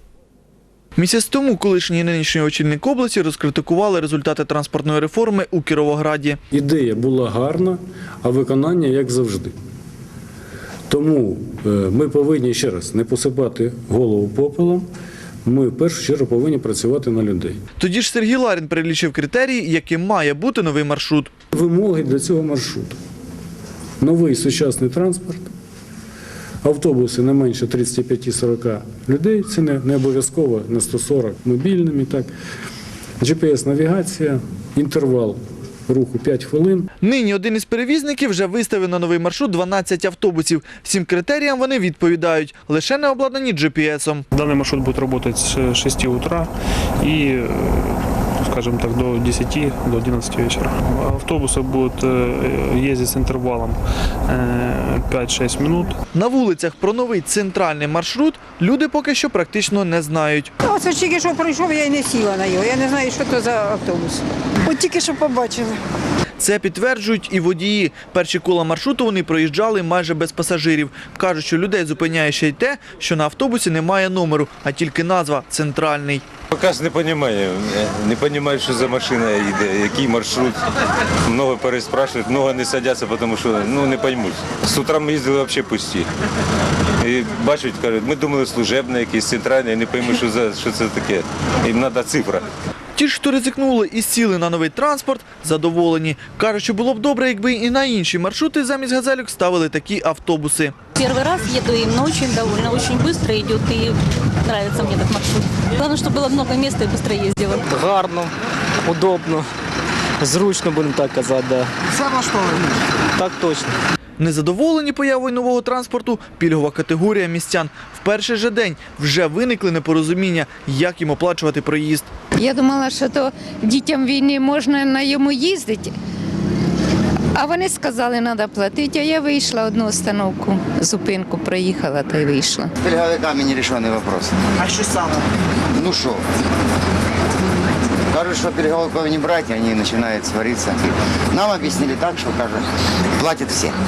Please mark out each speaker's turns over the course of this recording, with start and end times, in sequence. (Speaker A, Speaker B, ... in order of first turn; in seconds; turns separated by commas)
Speaker A: 1.0-6.4, Speaker B: 6.5-9.5, Speaker B: 10.9-14.8, Speaker B: 15.4-17.6, Speaker A: 17.8-21.3, Speaker B: 21.5-23.0, Speaker B: 24.0-25.5, Speaker B: 26.6-32.3, Speaker B: 33.2-36.9, Speaker A: 37.0-44.2, Speaker C: 44.3-56.0, Speaker A: 56.1-60.5, Speaker D: 60.6-65.8, Speaker A: 66.4-76.3, Speaker E: 76.5-80.6, Speaker E: 81.2-86.1, Speaker E: 87.0-92.5, Speaker A: 93.0-100.7, Speaker F: 101.0-107.7, Speaker G: 107.7-108.3, Speaker G: 108.8-109.5, Speaker G: 110.2-111.7, Speaker G: 113.2-113.7, Speaker A: 114.2-122.1, Speaker H: 122.3-125.9, Speaker H: 127.3-132.7, Speaker I: 132.8-134.8, Speaker I: 135.7-136.2, Speaker I: 138.1-143.8